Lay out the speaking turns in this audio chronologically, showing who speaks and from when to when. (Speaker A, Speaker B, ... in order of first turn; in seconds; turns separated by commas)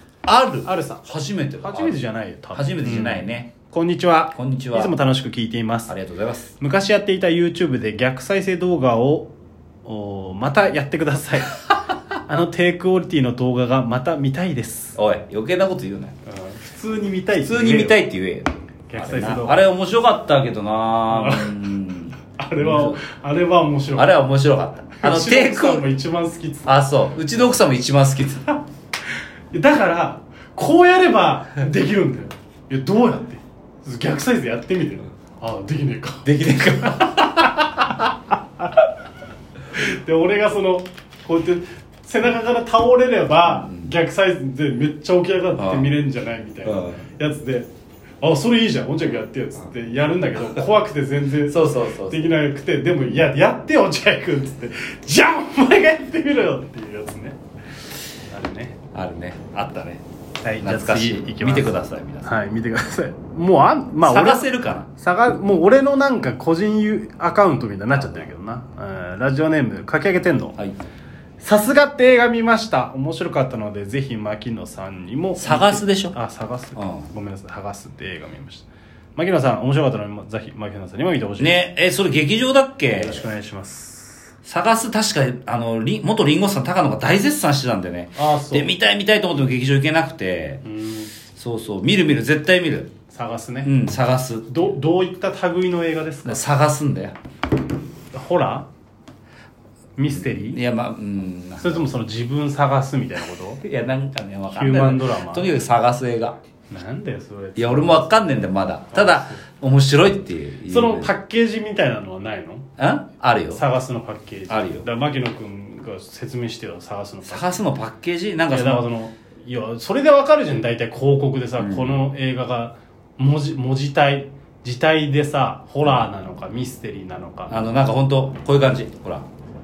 Speaker A: 0.3-2.0, Speaker B: 0.6-1.1, Speaker B: 1.6-6.0, Speaker A: 2.5-3.5, Speaker A: 4.3-5.0, Speaker A: 5.9-6.5, Speaker B: 6.6-9.3, Speaker B: 9.8-11.7, Speaker B: 12.3-15.0, Speaker A: 15.0-16.1, Speaker B: 16.3-18.0, Speaker A: 17.3-23.0, Speaker B: 18.9-19.7, Speaker B: 21.1-21.6, Speaker B: 22.4-24.2, Speaker A: 24.0-25.9, Speaker B: 25.0-27.5, Speaker A: 26.7-28.5, Speaker B: 29.5-36.3, Speaker A: 36.2-38.0, Speaker B: 39.7-47.7, Speaker A: 43.4-43.9, Speaker A: 45.6-45.9, Speaker A: 46.6-47.0, Speaker B: 48.2-57.4, Speaker A: 51.5-52.2, Speaker B: 58.3-58.8, Speaker A: 58.9-60.0, Speaker B: 60.4-70.6, Speaker A: 60.6-62.4, Speaker A: 64.0-64.9, Speaker A: 68.0-68.3, Speaker B: 71.4-81.7, Speaker A: 75.4-76.2, Speaker A: 76.8-77.1, Speaker A: 81.4-83.3, Speaker B: 82.9-84.3, Speaker A: 84.5-90.6, Speaker B: 88.2-88.7, Speaker B: 90.6-91.1, Speaker A: 91.3-92.9, Speaker B: 93.1-93.7, Speaker A: 93.6-94.7, Speaker B: 94.5-96.5, Speaker A: 96.2-97.2, Speaker B: 98.1-98.7, Speaker B: 100.0-100.6, Speaker A: 100.1-101.9, Speaker B: 101.6-103.6, Speaker A: 103.6-106.4, Speaker B: 104.5-105.5, Speaker B: 106.7-108.2, Speaker A: 107.6-111.1, Speaker B: 108.9-109.4, Speaker B: 110.7-112.7, Speaker A: 112.8-113.6, Speaker B: 113.5-117.6, Speaker A: 114.5-114.9, Speaker A: 117.3-118.9, Speaker B: 118.5-127.7, Speaker A: 121.6-122.0, Speaker A: 127.5-129.3